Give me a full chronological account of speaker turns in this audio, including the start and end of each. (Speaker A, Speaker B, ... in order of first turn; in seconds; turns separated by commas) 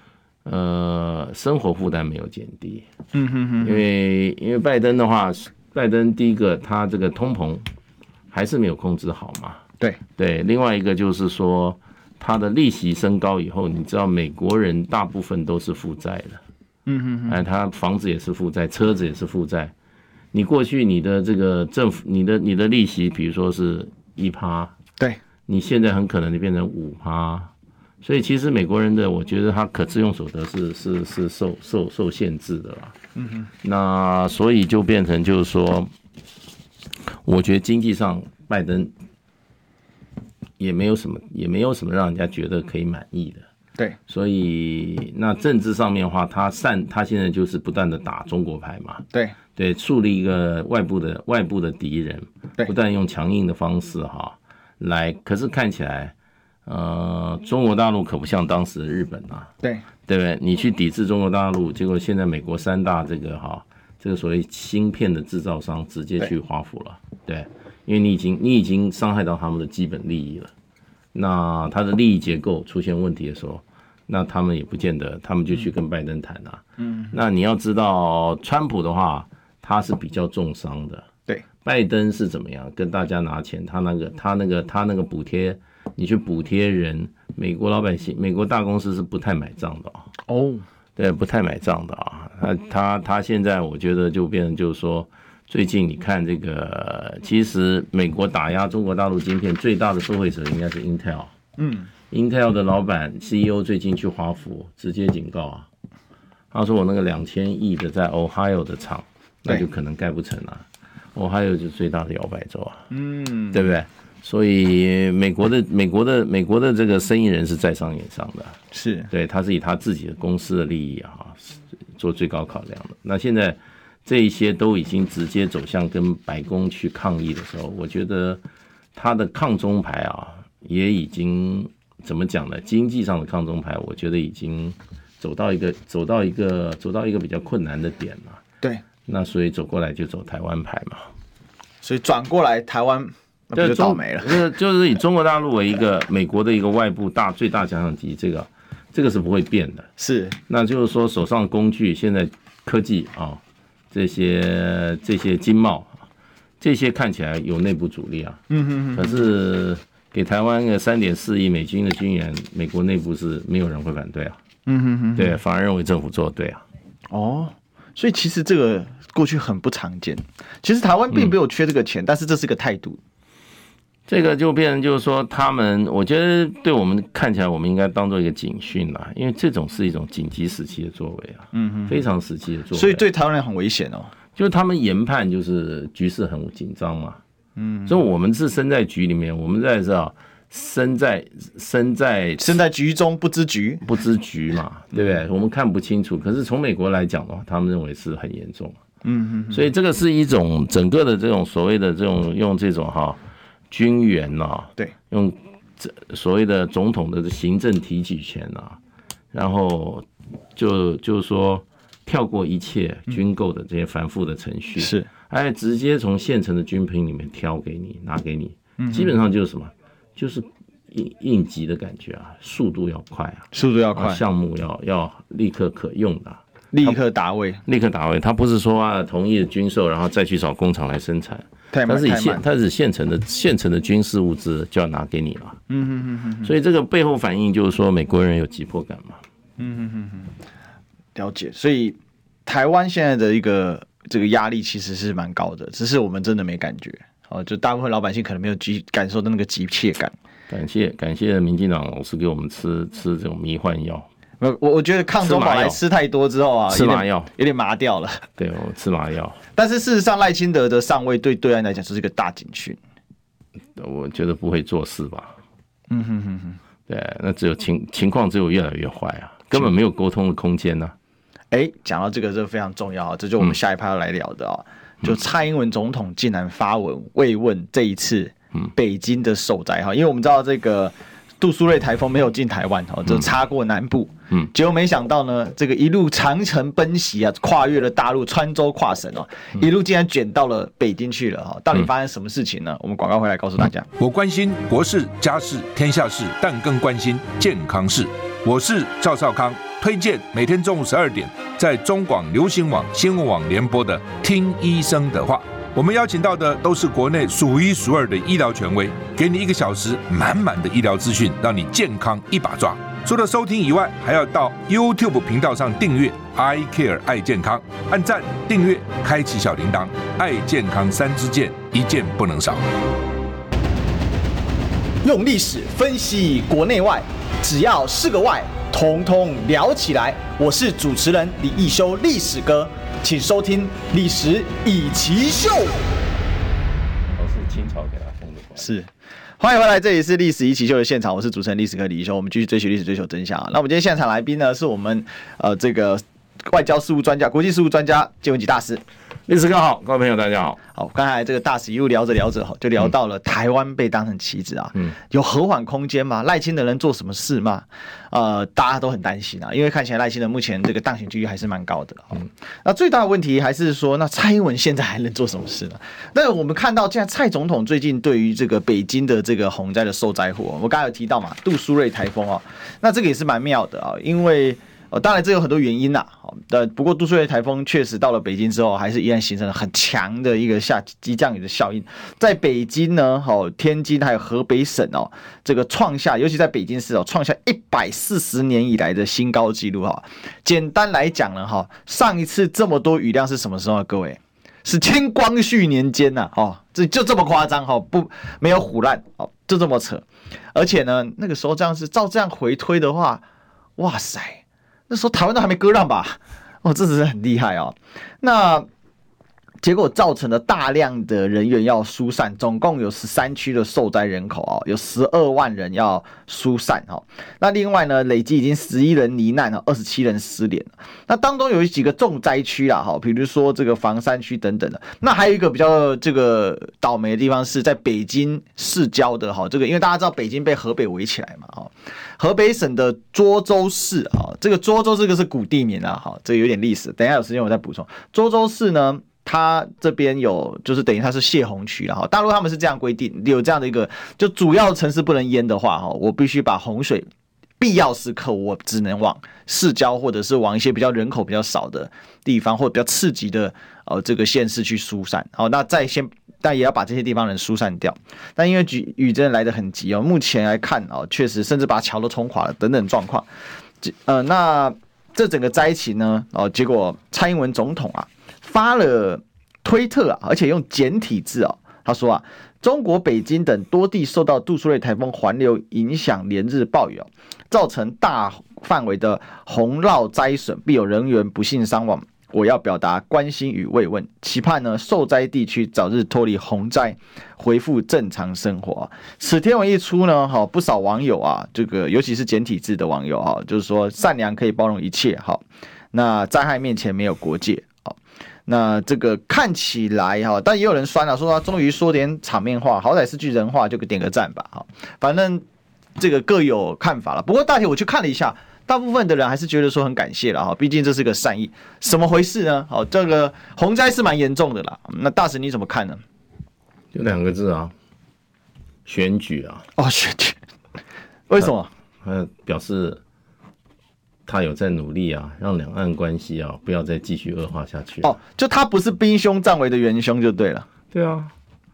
Speaker A: 0.5-2.9, Speaker B: 3.1-3.8, Speaker A: 3.6-7.6, Speaker A: 8.3-9.6, Speaker A: 10.2-16.4, Speaker B: 16.9-17.4, Speaker A: 17.3-19.7, Speaker A: 20.3-24.8, Speaker A: 25.5-27.5, Speaker A: 28.0-33.0, Speaker B: 33.2-33.5, Speaker A: 33.6-35.9, Speaker A: 37.2-38.9, Speaker A: 40.6-43.5, Speaker A: 44.1-56.1, Speaker A: 56.7-59.5, Speaker A: 60.1-70.5, Speaker A: 71.1-81.1, Speaker B: 76.8-77.1, Speaker A: 81.6-90.1, Speaker B: 90.3-90.6, Speaker A: 91.0-101.3, Speaker B: 101.6-101.9, Speaker A: 102.1-105.7, Speaker A: 106.5-112.8, Speaker B: 112.9-113.7, Speaker A: 113.5-118.6, Speaker B: 118.7-119.1, Speaker A: 119.1-128.4, Speaker A: 128.9-138.4, Speaker A: 139.1-141.1, Speaker B: 141.8-144.4, Speaker A: 143.6-149.9, Speaker B: 150.0-150.4, Speaker A: 150.5-156.0, Speaker A: 156.6-158.4, Speaker B: 158.5-159.2, Speaker A: 158.9-164.4, Speaker B: 164.7-165.4, Speaker A: 165.2-166.7, Speaker B: 167.1-173.0, Speaker A: 174.1-183.0, Speaker B: 181.5-182.0, Speaker B: 182.7-184.1, Speaker A: 184.4-187.2, Speaker B: 187.6-188.0, Speaker A: 187.9-192.6, Speaker B: 192.4-193.8, Speaker A: 193.8-198.8, Speaker B: 199.0-199.7, Speaker A: 199.5-208.8, Speaker A: 209.3-227.0, Speaker B: 214.8-215.1, Speaker B: 218.8-219.1, Speaker B: 223.5-224.2, Speaker B: 226.7-227.6, Speaker A: 227.7-235.6, Speaker B: 231.7-232.4, Speaker B: 235.7-236.5, Speaker A: 236.4-239.2, Speaker B: 239.6-240.3, Speaker B: 241.2-250.1, Speaker A: 250.5-254.1, Speaker B: 254.4-258.2, Speaker A: 255.2-255.8, Speaker A: 256.7-257.3, Speaker A: 258.4-259.4, Speaker B: 259.6-262.8, Speaker A: 263.8-265.4, Speaker B: 265.9-266.6, Speaker A: 266.9-270.9, Speaker B: 271.5-293.9, Speaker C: 294.0-322.6, Speaker B: 325.0-335.8, Speaker A: 337.1-338.7, Speaker B: 338.6-348.8, Speaker A: 349.3-350.6, Speaker B: 350.8-403.2, Speaker B: 403.8-408.7, Speaker B: 409.6-447.1, Speaker B: 447.6-463.3, Speaker B: 463.8-505.4, Speaker B: 506.0-516.0, Speaker A: 516.9-517.7, Speaker A: 518.9-519.7, Speaker B: 519.8-520.4, Speaker B: 521.3-521.7, Speaker A: 522.0-523.0, Speaker A: 524.3-528.1, Speaker B: 528.0-530.7, Speaker A: 530.9-531.3